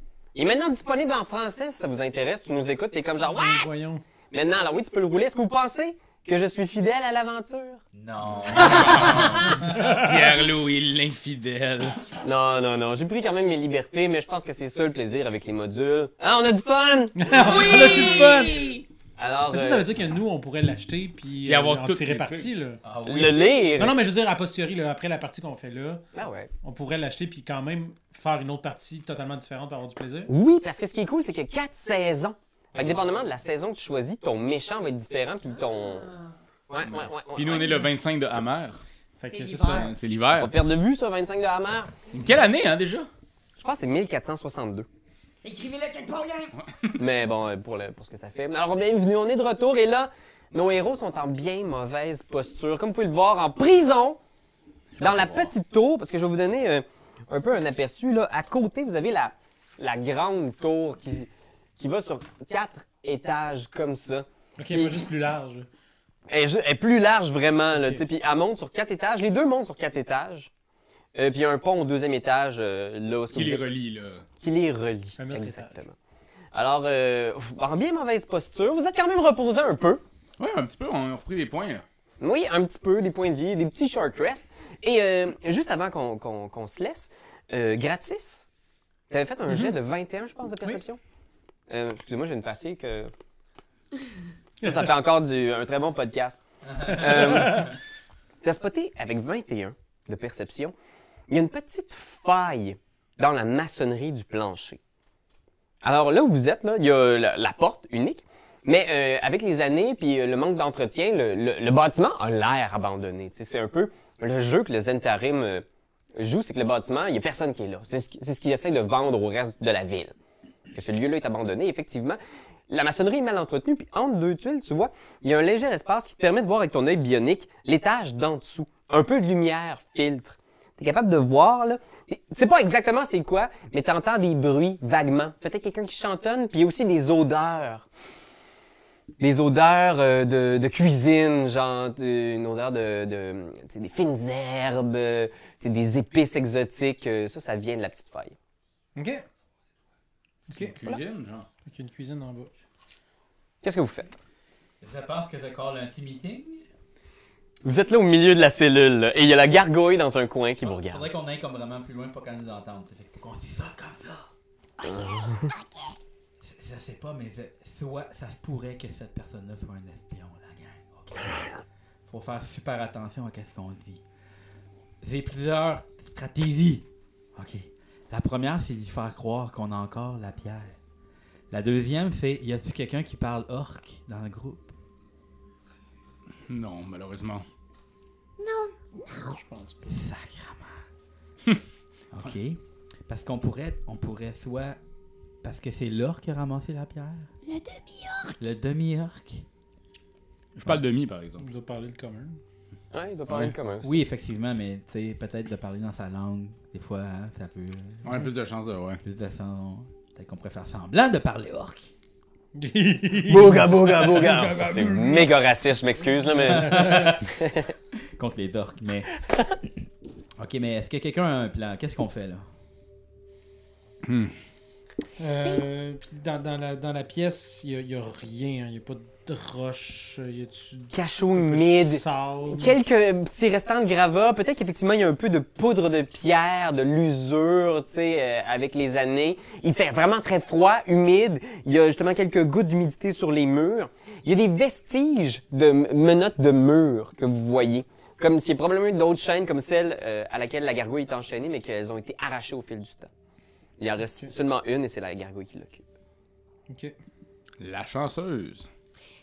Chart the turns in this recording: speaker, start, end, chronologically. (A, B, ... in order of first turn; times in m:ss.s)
0:00.4-0:03.7 A
0:03.2-0:04.0 B
0:04.3-0:07.8 A
0:07.9-0:09.8 C
0:08.3-0:12.1 D
0:12.2-0:17.8 A
0:17.2-0:18.8 B
0:17.3-0:18.8 C
0:19.2-0:19.9 A
0:19.5-0:22.8 B
0:21.4-0:22.5 D
0:22.8-0:23.4 C
0:23.0-0:24.0 A
0:23.8-0:26.0 B
0:26.1-0:26.5 A
0:26.6-0:30.3 B
0:30.3-0:36.1 A
0:32.8-0:33.1 D
0:35.5-0:36.4 E
0:36.7-0:37.8 A
0:36.8-0:38.8 D
0:39.2-0:39.9 B
0:39.2-0:39.9 E
0:39.6-0:40.5 D
0:40.3-0:41.9 A
0:42.1-0:43.1 D
0:43.6-0:44.9 A
0:45.4-0:46.6 E
0:46.6-0:46.9 D
0:47.0-0:54.2 A
0:55.0-0:55.5 D
0:55.0-1:05.1 A
1:04.6-1:05.7 B
1:06.3-1:10.5 A
1:07.8-1:08.0 B
1:11.2-1:13.6 A
1:13.3-1:14.2 D
1:14.4-1:16.0 A
1:15.2-1:15.8 B
1:16.5-1:20.0 A
1:20.4-1:21.8 D
1:22.2-1:28.5 A
1:29.1-1:31.0 A
1:29.5-1:29.8 B
1:31.7-1:33.1 A
1:34.6-1:37.7 A
1:37.2-1:37.7 B
1:38.4-1:40.8 A
1:41.3-1:44.8 A
1:45.8-2:00.2 A
2:00.7-2:17.9 A
2:19.2-2:28.4 A
2:29.0-2:29.2 B
2:30.5-2:31.0 B
2:30.5-2:31.5 D
2:31.7-2:32.5 B
2:33.6-2:34.1 A
2:34.8-2:36.6 C
2:37.6-2:41.0 A
2:40.7-2:44.3 C
2:44.8-2:45.5 A
2:44.9-2:45.9 E
2:46.4-2:51.5 C
2:52.1-2:54.0 C
2:55.0-3:00.8 C
3:01.5-3:04.7 C
3:06.5-3:07.4 D
3:08.4-3:09.4 E
3:09.3-3:10.0 B
3:09.9-3:10.9 C
3:12.1-3:14.8 C
3:15.4-3:17.3 C
3:17.4-3:18.5 E
3:18.4-3:19.5 C
3:20.6-3:21.5 D
3:21.4-3:22.4 B
3:22.9-3:24.0 A
3:23.8-3:28.3 C
3:28.0-3:29.0 D
3:29.0-3:31.9 C
3:32.6-3:35.3 B
3:33.2-3:37.7 A
3:36.4-3:37.2 B
3:36.7-3:37.0 C
3:38.2-3:39.1 C
3:40.4-3:42.5 C
3:44.0-3:44.4 D
3:45.2-3:52.8 B
3:50.9-4:13.1 A
4:13.8-4:15.8 A
4:16.7-4:17.0 B
4:17.6-4:18.7 D